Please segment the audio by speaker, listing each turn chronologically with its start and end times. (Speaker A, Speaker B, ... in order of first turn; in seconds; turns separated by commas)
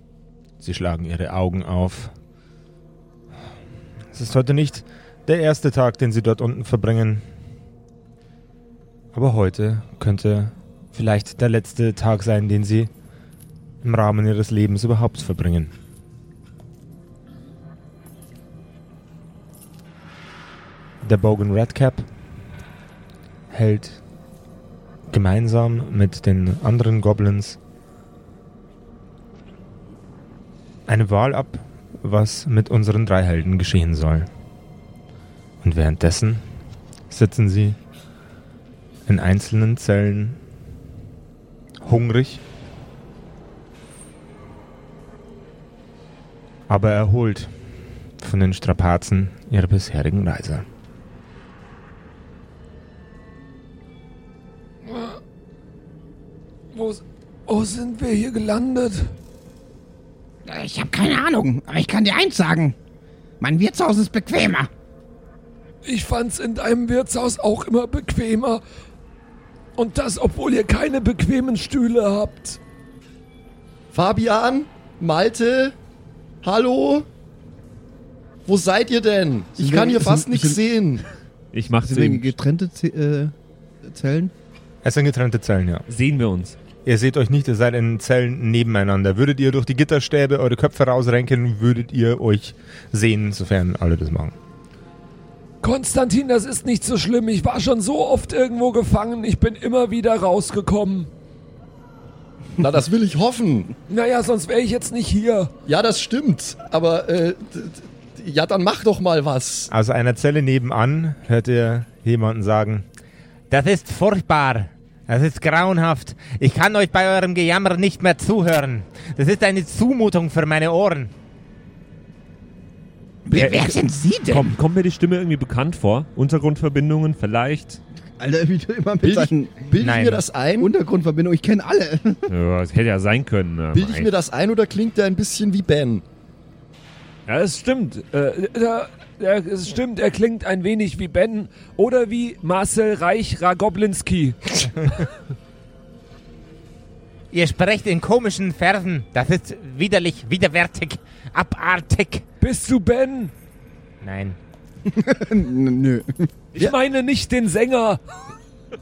Speaker A: 0.6-2.1, Speaker A: 4.1-7.2, Speaker A: 9.1-12.9, Speaker A: 13.8-15.7, Speaker A: 21.0-22.0, Speaker A: 23.5-24.0, Speaker A: 25.1-27.6, Speaker A: 30.9-34.3, Speaker A: 35.6-36.4, Speaker A: 37.1-37.8, Speaker A: 39.1-40.4, Speaker A: 41.8-42.4, Speaker A: 46.7-47.5, Speaker A: 48.2-50.6, Speaker B: 54.8-55.2, Speaker B: 56.7-59.1, Speaker C: 60.5-62.8, Speaker C: 63.4-64.7, Speaker B: 65.8-68.6, Speaker B: 69.8-72.6, Speaker D: 73.9-75.8, Speaker D: 76.4-77.1, Speaker D: 78.5-81.0, Speaker E: 79.6-80.6, Speaker F: 81.5-82.3, Speaker E: 81.8-84.3, Speaker A: 84.8-85.8, Speaker F: 85.9-86.6, Speaker A: 86.8-94.3, Speaker B: 95.6-101.1, Speaker D: 102.6-103.7, Speaker B: 103.9-105.5, Speaker D: 105.7-109.7, Speaker A: 109.7-112.8, Speaker A: 113.5-121.1, Speaker C: 123.2-124.6, Speaker F: 123.3-127.8, Speaker E: 128.2-129.7, Speaker D: 129.0-130.7, Speaker A: 129.8-130.2, Speaker E: 130.6-132.3, Speaker F: 132.3-134.1, Speaker D: 133.7-136.0, Speaker B: 137.3-145.0, Speaker A: 147.3-152.2, Speaker B: 152.4-153.3, Speaker A: 154.0-154.4, Speaker E: 154.9-156.3, Speaker B: 156.5-158.0